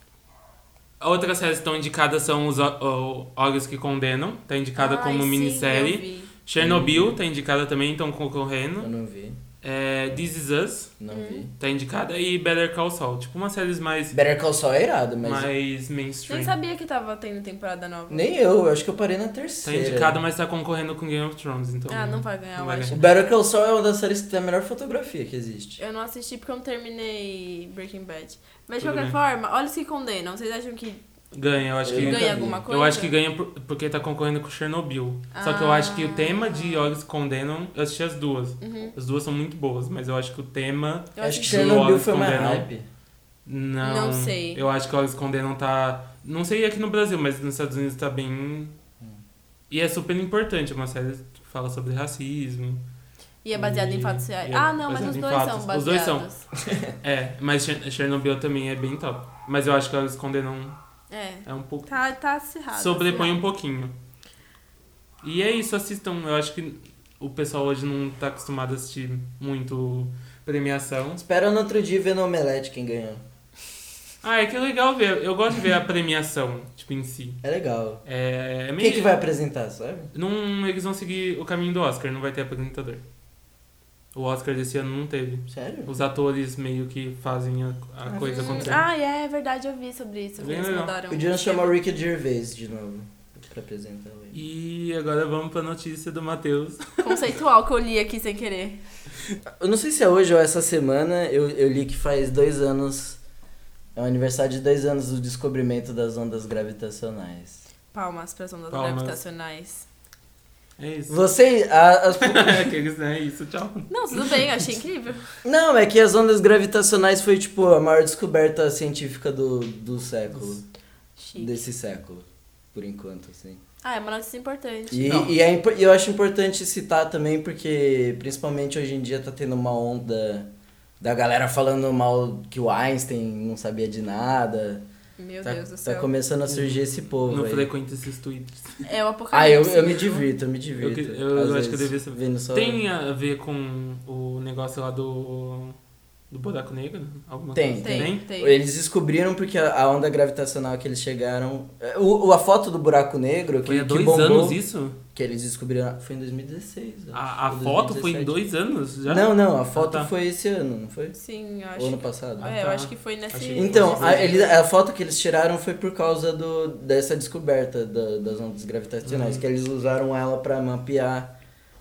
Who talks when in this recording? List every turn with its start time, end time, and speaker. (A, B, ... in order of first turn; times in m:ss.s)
0:01.0-0:08.9 A
0:04.8-0:06.3 B
0:06.6-0:07.2 C
0:08.8-0:09.4 C
0:09.6-0:11.0 A
0:11.0-0:11.5 C
0:11.1-0:11.5 B
0:11.6-0:14.2 A
0:14.1-0:15.5 C
0:15.2-0:16.6 A
0:16.3-0:18.3 B
0:18.1-0:20.2 C
0:19.6-0:22.9 A
0:21.9-0:23.1 B
0:22.9-0:25.8 C
0:25.8-0:31.0 B
0:28.8-0:29.2 A
0:31.3-0:42.7 A
0:31.8-0:32.6 C
0:31.9-0:33.1 B
0:35.3-0:36.9 B
0:38.6-0:39.0 B
0:41.2-0:42.0 B
0:41.2-0:42.8 C
0:43.5-0:48.7 A
0:43.8-0:44.6 B
0:49.7-0:52.8 A
0:53.4-0:56.4 B
0:53.5-0:56.3 A
0:57.0-1:00.8 A
1:01.1-1:03.4 B
1:01.4-1:01.9 A
1:02.7-1:04.0 A
1:05.2-1:11.2 A
1:11.2-1:13.2 C
1:14.2-1:17.4 A
1:17.4-1:18.0 C
1:18.0-1:19.2 A
1:18.8-1:20.1 C
1:20.1-1:23.0 A
1:24.2-1:28.8 A
1:25.5-1:25.9 C
1:28.0-1:28.8 C
1:28.4-1:31.8 B
1:30.4-1:31.0 A
1:31.1-1:34.4 C
1:34.3-1:37.2 A
1:37.0-1:38.8 B
1:39.6-1:43.2 C
1:44.0-1:47.6 C
1:47.9-1:49.9 B
1:48.7-1:49.2 A
1:50.8-1:51.3 A
1:51.1-1:52.7 C
1:52.2-1:54.4 A
1:53.9-1:55.3 B
1:55.4-2:00.6 C
2:00.4-2:00.6 A
2:01.2-2:01.6 B
2:01.4-2:03.6 C
2:03.8-2:05.4 B
2:04.9-2:10.5 C
2:11.0-2:14.8 C
2:15.2-2:16.1 B
2:15.4-2:17.7 C
2:16.5-2:18.8 A
2:18.8-2:20.2 B
2:19.3-2:22.8 C
2:20.8-2:25.8 A
2:26.3-2:28.2 A
2:27.5-2:34.6 C
2:27.8-2:28.6 B
2:33.6-2:35.0 A
2:35.1-2:38.4 C
2:37.1-2:40.1 A
2:39.1-2:41.2 C
2:41.2-2:44.5 B
2:41.8-2:42.5 C
2:42.4-2:44.5 A
2:43.6-2:51.3 C
2:49.0-2:49.4 A